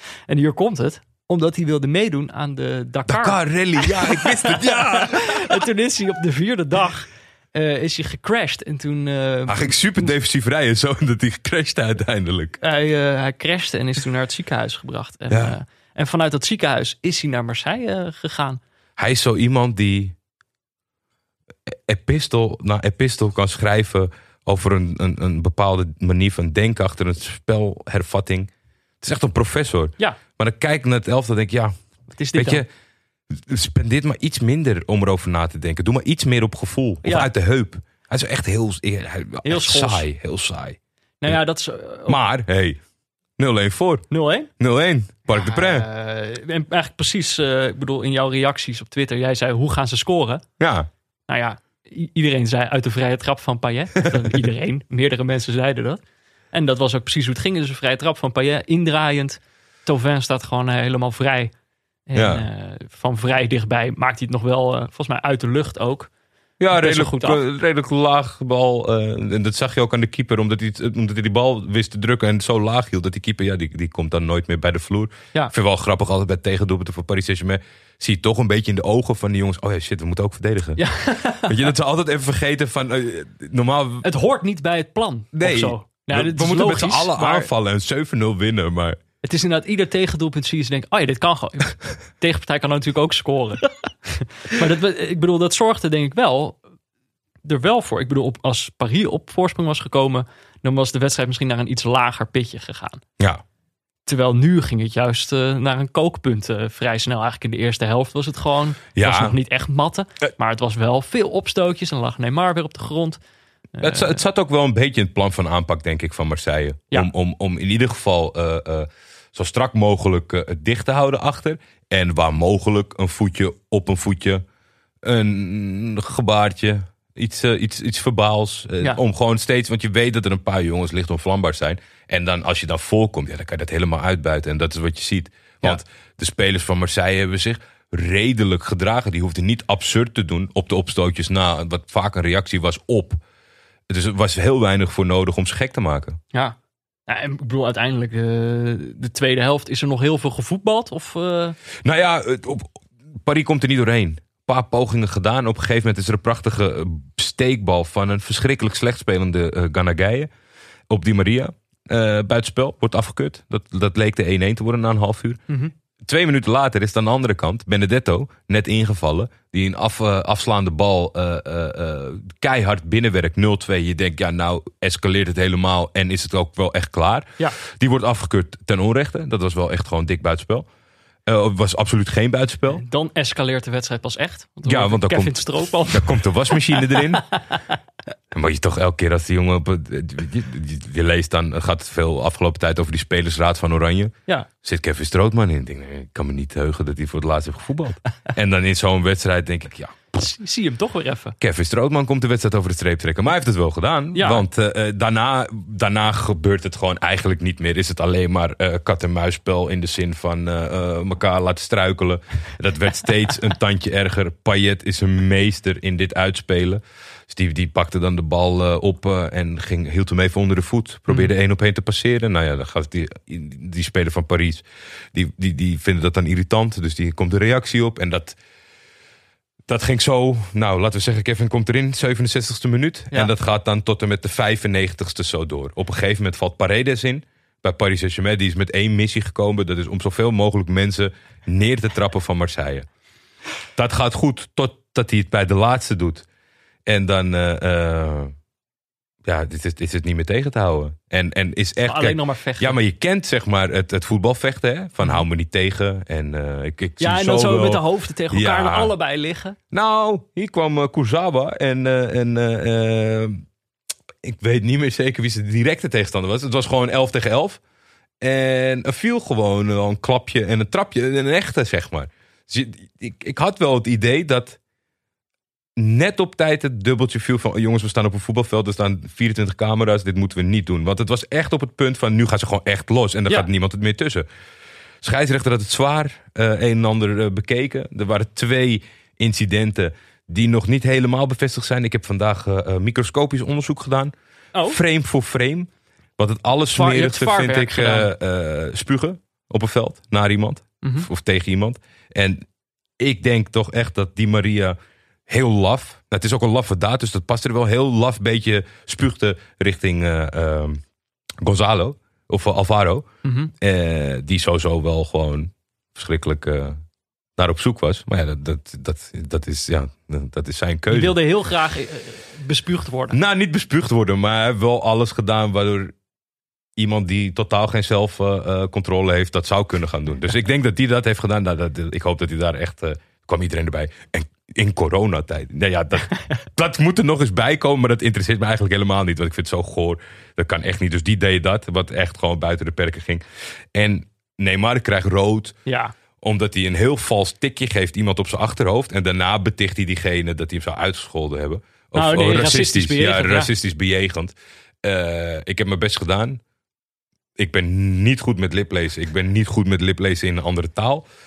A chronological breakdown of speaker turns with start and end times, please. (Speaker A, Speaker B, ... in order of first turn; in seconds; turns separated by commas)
Speaker A: 0.3-10.1, Speaker B: 3.1-5.7, Speaker B: 9.5-12.6, Speaker A: 12.6-18.6, Speaker B: 15.3-15.6, Speaker B: 19.0-20.1, Speaker B: 21.7-28.5, Speaker B: 29.0-31.7, Speaker A: 32.1-32.6, Speaker B: 32.3-32.7, Speaker B: 33.3-41.4, Speaker A: 37.0-37.3, Speaker A: 39.4-40.0, Speaker A: 41.2-42.2, Speaker B: 42.1-42.8, Speaker B: 43.4-45.9, Speaker A: 44.1-44.5, Speaker A: 45.3-50.4, Speaker B: 50.6-50.9, Speaker A: 51.3-56.0, Speaker A: 56.5-61.5, Speaker A: 62.1-66.1, Speaker B: 62.1-62.5, Speaker B: 66.6-80.8, Speaker A: 66.7-67.4, Speaker A: 80.8-81.6, Speaker B: 81.5-84.1, Speaker A: 84.0-87.5, Speaker B: 85.3-89.0, Speaker A: 89.2-96.6, Speaker A: 97.5-103.0, Speaker A: 104.1-113.2, Speaker B: 109.0-109.3, Speaker A: 113.8-114.2, Speaker B: 113.8-124.4, Speaker B: 125.0-143.2, Speaker B: 143.9-146.2, Speaker A: 146.3-151.6, Speaker B: 151.8-160.3, Speaker B: 160.9-165.4, Speaker B: 166.0-180.7, Speaker B: 181.3-182.8, Speaker A: 182.7-187.6, Speaker B: 184.7-187.2, Speaker B: 188.3-200.2, Speaker A: 200.2-201.3, Speaker B: 201.4-228.4, Speaker A: 204.2-204.4, Speaker B: 229.7-242.9, Speaker B: 243.8-246.2, Speaker B: 246.9-248.3, Speaker B: 249.2-258.9, Speaker A: 251.8-252.8, Speaker A: 257.0-259.6, Speaker B: 259.7-263.4, Speaker B: 264.2-267.6, Speaker B: 268.2-274.6, Speaker B: 275.8-284.2, Speaker B: 285.0-294.1, Speaker A: 294.5-294.8, Speaker B: 294.6-302.4, Speaker A: 296.7-298.1, Speaker A: 300.8-301.1, Speaker B: 303.0-310.8, Speaker B: 311.4-313.1, Speaker A: 313.2-313.5, Speaker B: 313.6-316.8, Speaker B: 317.4-321.2, Speaker A: 320.9-323.2, Speaker B: 323.1-325.9, Speaker B: 326.8-345.6, Speaker A: 345.7-345.9, Speaker B: 346.2-356.4, Speaker A: 351.9-353.5, Speaker B: 357.4-361.1